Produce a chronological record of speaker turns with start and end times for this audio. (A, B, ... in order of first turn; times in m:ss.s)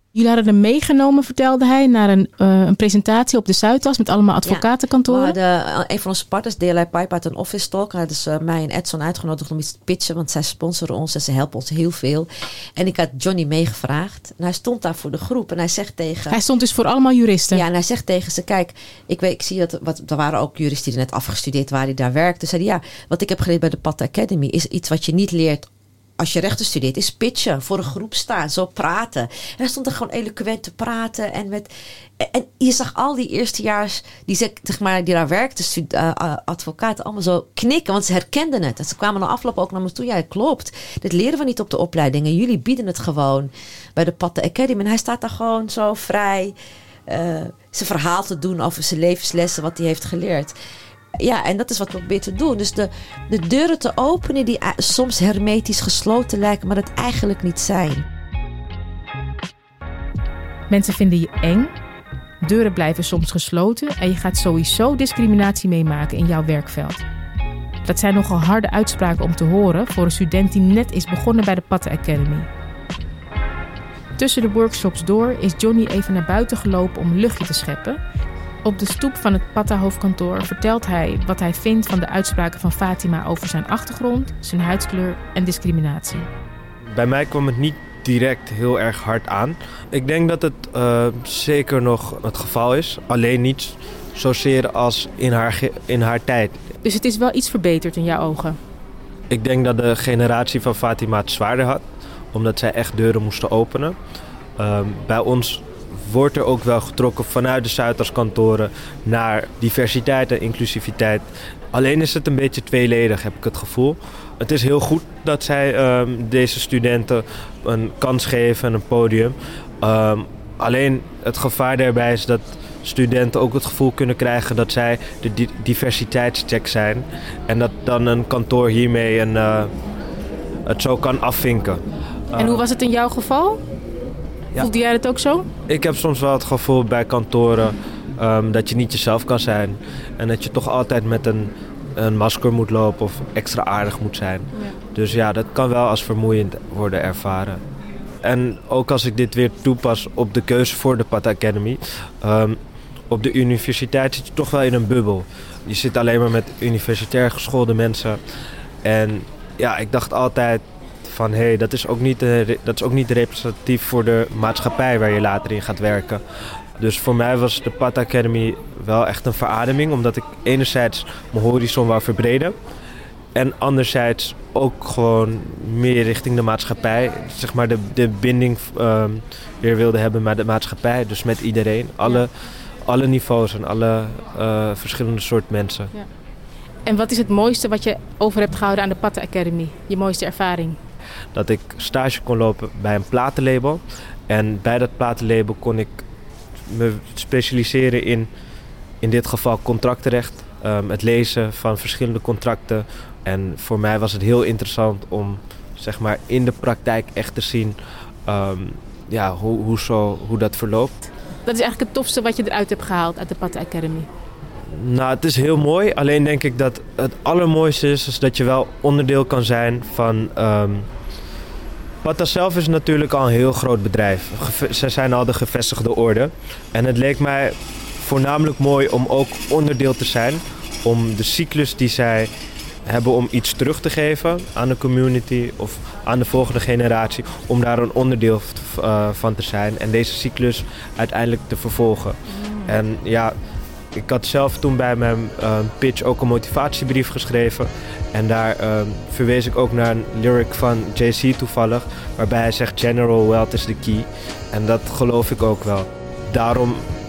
0:00.1-0:05.4 A
0:04.4-0:16.4 B
0:16.3-0:17.6 A
0:17.5-0:46.6 B
0:47.1-0:50.6 B
0:51.2-0:58.1 B
1:00.7-1:01.7 A
1:02.4-1:07.0 A
1:07.8-1:12.5 A
1:14.2-1:18.0 A
1:18.6-1:26.3 A
1:26.9-1:36.7 C
1:36.8-1:38.6 A
1:39.3-1:44.0 C
1:44.6-2:09.7 C
2:10.7-2:11.8 C
2:12.3-2:12.6 C
2:12.4-2:13.6 A
2:14.6-2:15.5 A
2:15.7-2:27.6 C
2:28.2-2:32.6 C
2:33.1-2:38.2 C
2:38.8-2:46.2 C
2:46.8-2:52.5 C
2:53.3-3:02.3 C
3:02.8-3:05.9 C
3:06.8-3:10.8 A
3:11.3-3:16.0 C
3:16.6-3:18.3 C
3:19.0-3:27.8 C
3:28.3-3:30.9 C
3:31.4-3:34.1 A
3:34.7-3:40.9 C
3:42.0-3:52.3 C
3:52.8-4:03.3 C
4:02.3-4:02.8 A
4:04.0-4:16.8 C